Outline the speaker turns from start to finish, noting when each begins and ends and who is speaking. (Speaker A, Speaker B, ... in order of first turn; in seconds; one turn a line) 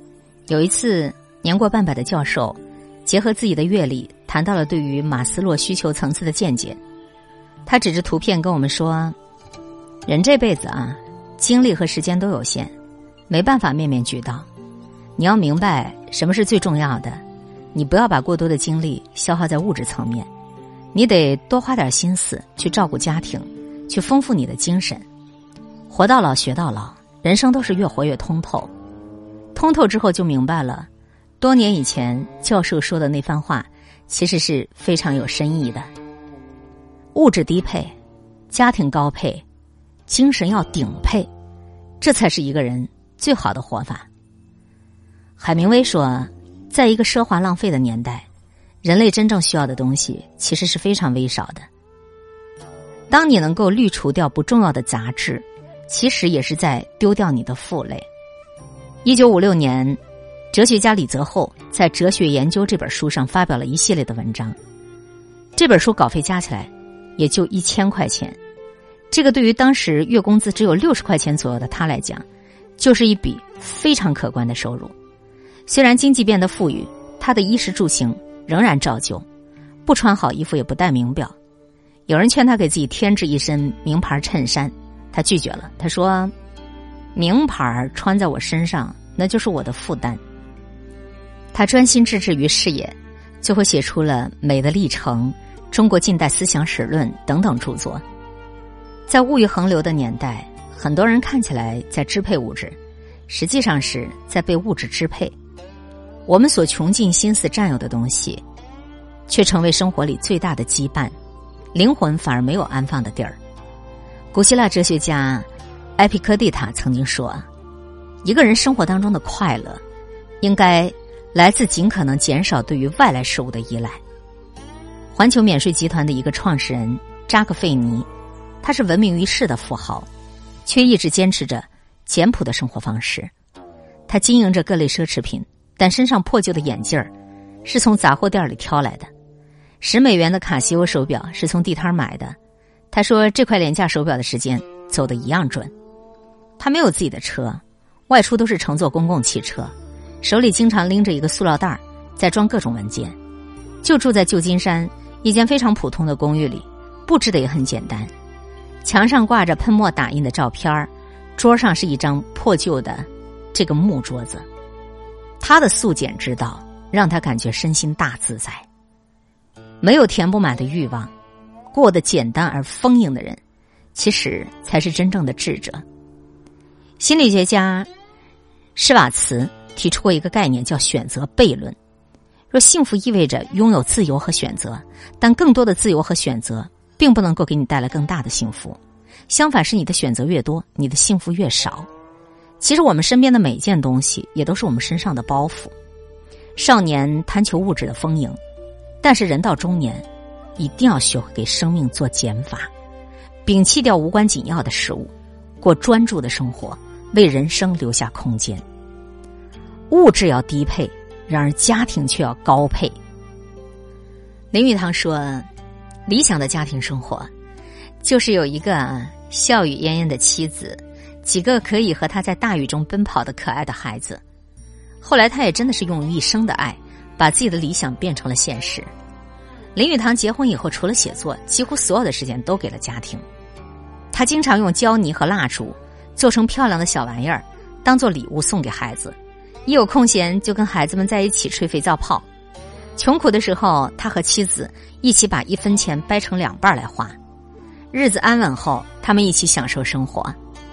Speaker A: 0.5-6.8
Speaker A: 7.7-9.2
Speaker A: 10.1-12.7
Speaker A: 13.3-14.4
Speaker A: 15.2-17.2
Speaker A: 17.7-20.3
Speaker A: 20.9-25.0
Speaker A: 25.9-28.7
Speaker A: 29.5-30.9
Speaker A: 31.4-35.9
Speaker A: 37.1-37.9
Speaker A: 38.5-39.4
Speaker A: 40.1-41.3
Speaker A: 42.0-44.1
Speaker A: 45.4-48.2
Speaker A: 48.8-51.6
Speaker A: 53.1-58.1
Speaker A: 59.0-60.0
Speaker A: 60.5-64.6
Speaker A: 65.5-68.4
Speaker A: 69.1-72.2
Speaker A: 72.8-74.9
Speaker A: 75.7-79.2
Speaker A: 79.8-81.3
Speaker A: 82.1-86.3
Speaker A: 87.1-90.2
Speaker A: 91.5-98.0
Speaker A: 99.1-102.8
Speaker A: 103.3-105.3
Speaker A: 106.3-108.4
Speaker A: 109.3-111.1
Speaker A: 111.7-113.4
Speaker A: 114.3-117.5
Speaker A: 118.2-119.8
Speaker A: 120.4-124.0
Speaker A: 125.1-128.1
Speaker A: 128.6-130.1
Speaker A: 130.7-133.3
Speaker A: 134.1-137.1
Speaker A: 137.6-139.1
Speaker A: 139.8-142.3
Speaker A: 142.9-145.7
Speaker A: 146.6-153.2
Speaker A: 153.8-158.1
Speaker A: 158.8-164.4
Speaker A: 165.4-168.7
Speaker A: 169.8-171.1
Speaker A: 171.7-173.4
Speaker A: 173.9-175.8
Speaker A: 177.0-177.9
Speaker A: 178.8-181.8
Speaker A: 182.5-188.8
Speaker A: 189.3-191.9
Speaker A: 192.6-195.7
Speaker A: 196.6-198.4
Speaker A: 199.0-200.1
Speaker A: 200.6-202.7
Speaker A: 203.4-208.6
Speaker A: 209.9-213.0
Speaker A: 214.5-215.5
Speaker A: 216.1-217.3
Speaker A: 218.0-224.2
Speaker A: 225.0-228.9
Speaker A: 229.7-233.2
Speaker A: 234.1-242.2
Speaker A: 242.9-247.2
Speaker A: 247.9-250.3